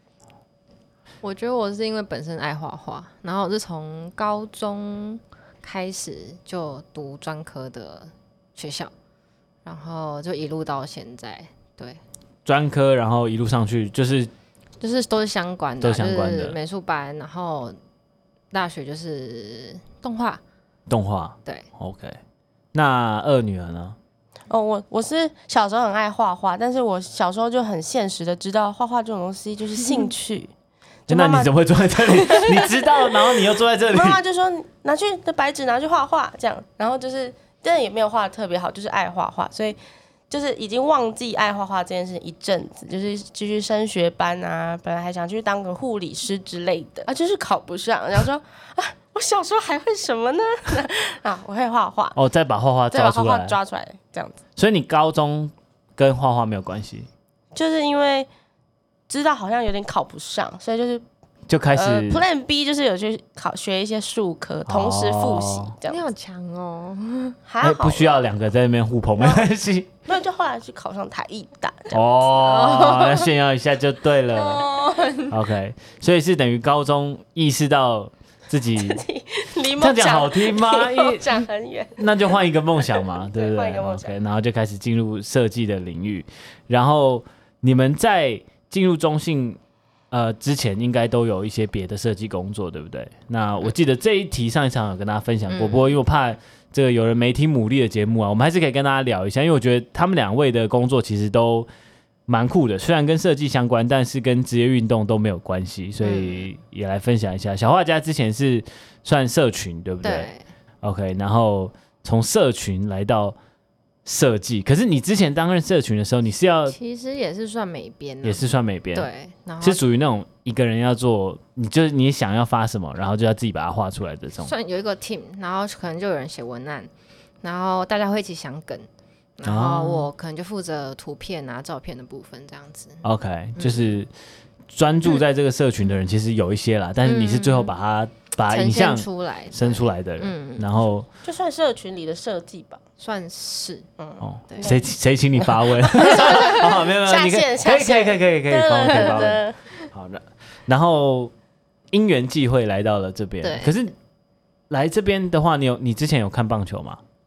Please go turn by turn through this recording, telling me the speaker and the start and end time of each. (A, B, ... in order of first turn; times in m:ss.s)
0:01.2-0:08.9 A
0:09.6-0:12.0 A
0:12.4-0:14.3 B
0:14.8-0:17.8 A
0:15.8-0:16.6 B
0:18.5-0:20.4 A
0:20.9-0:22.2 B
0:22.7-0:24.0 B
0:24.5-0:30.5 C
0:31.1-0:33.4 C
0:31.1-0:34.2 B
0:33.9-0:39.8 C
0:40.3-0:52.2 C
0:52.2-0:53.6 B
0:52.9-0:54.4 C
0:54.6-0:57.1 B
0:57.5-0:58.3 C
0:59.1-1:01.0 C
1:01.5-1:02.2 B
1:01.7-1:06.0 C
1:04.6-1:05.7 B
1:05.8-1:07.4 A
1:07.5-1:08.2 C
1:07.6-1:09.9 B
1:09.2-1:09.4 C
1:10.0-1:12.0 C
1:11.9-1:14.7 B
1:12.3-1:13.3 A
1:14.3-1:15.3 A
1:15.3-1:19.0 B
1:18.7-1:24.2 C
1:19.8-1:21.4 B
1:22.0-1:29.6 B
1:30.1-1:41.7 B
1:35.5-1:36.0 A
1:42.3-1:50.3 B
1:46.0-1:46.5 A
1:50.0-1:50.4 A
1:50.8-1:53.4 B
1:54.0-1:56.8 B
1:56.7-1:59.8 A
1:58.2-1:59.1 B
1:59.6-2:04.5 B
2:04.4-2:06.9 A
2:07.4-2:13.0 A
2:09.4-2:10.1 B
2:13.0-2:14.1 B
2:13.6-2:13.9 A
2:14.7-2:21.1 B
2:17.0-2:17.7 A
2:18.5-2:20.7 A
2:21.2-2:22.8 C
2:23.0-2:23.8 A
2:24.0-2:24.8 C
2:24.2-2:29.4 B
2:24.5-2:24.7 A
2:25.4-2:29.6 C
2:29.9-2:31.3 B
2:31.9-2:33.9 B
2:33.4-2:33.8 A
2:34.7-2:37.0 B